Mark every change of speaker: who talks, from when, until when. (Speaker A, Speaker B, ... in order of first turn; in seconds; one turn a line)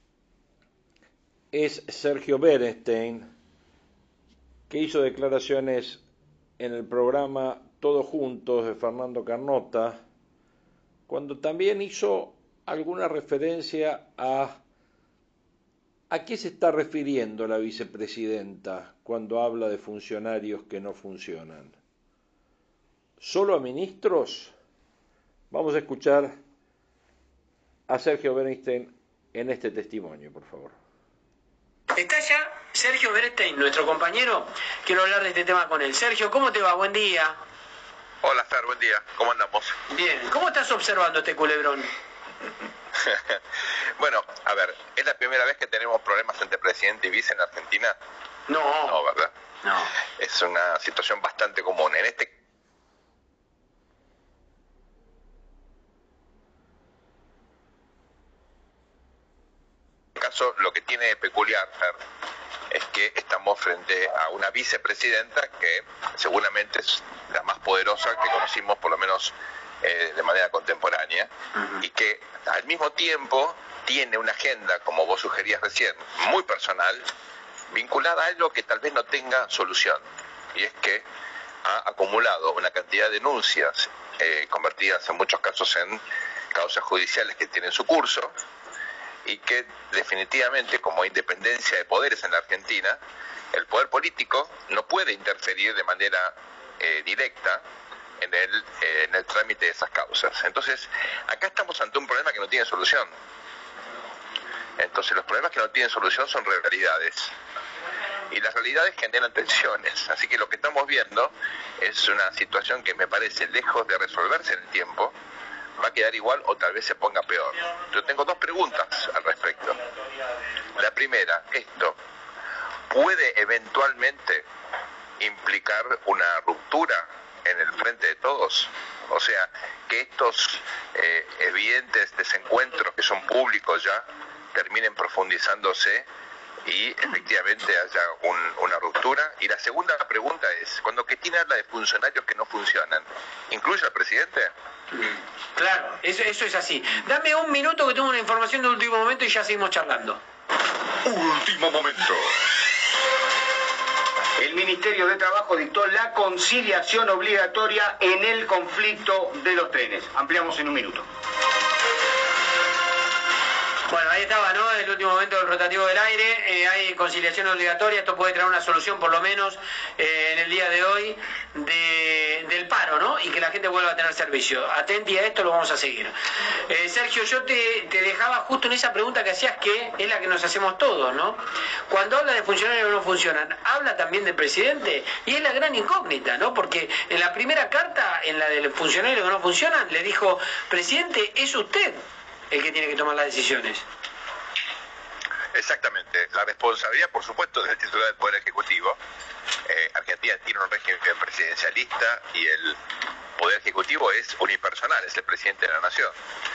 Speaker A: 1.5-3.3
Speaker A: 4.7-6.0
Speaker A: 6.6-10.0
Speaker A: 11.1-14.6
Speaker A: 16.1-21.8
Speaker A: 23.2-24.5
Speaker A: 25.5-26.3
Speaker A: 27.9-30.8
Speaker B: 31.9-37.4
Speaker C: 38.2-39.8
Speaker B: 39.9-41.9
Speaker C: 43.0-43.4
Speaker C: 44.0-47.9
Speaker B: 48.5-49.0
Speaker C: 48.8-49.3
Speaker B: 49.6-49.9
Speaker C: 50.2-52.3
Speaker C: 60.1-62.0
Speaker C: 62.7-77.1
Speaker C: 77.7-80.0
Speaker C: 80.5-81.0
Speaker C: 81.6-86.0
Speaker C: 86.5-88.3
Speaker C: 89.2-93.0
Speaker C: 93.5-97.6
Speaker C: 98.2-103.1
Speaker C: 104.8-107.3
Speaker C: 108.3-115.1
Speaker C: 115.8-119.8
Speaker C: 120.7-122.0
Speaker C: 122.9-124.5
Speaker C: 125.2-134.0
Speaker C: 134.5-136.1
Speaker C: 136.6-144.5
Speaker B: 145.0-150.2
Speaker D: 154.4-161.1
Speaker B: 163.9-176.1
Speaker B: 176.7-192.0
Speaker B: 192.5-193.8
Speaker C: 195.5-199.0
Speaker C: 199.7-202.8
Speaker C: 203.4-206.1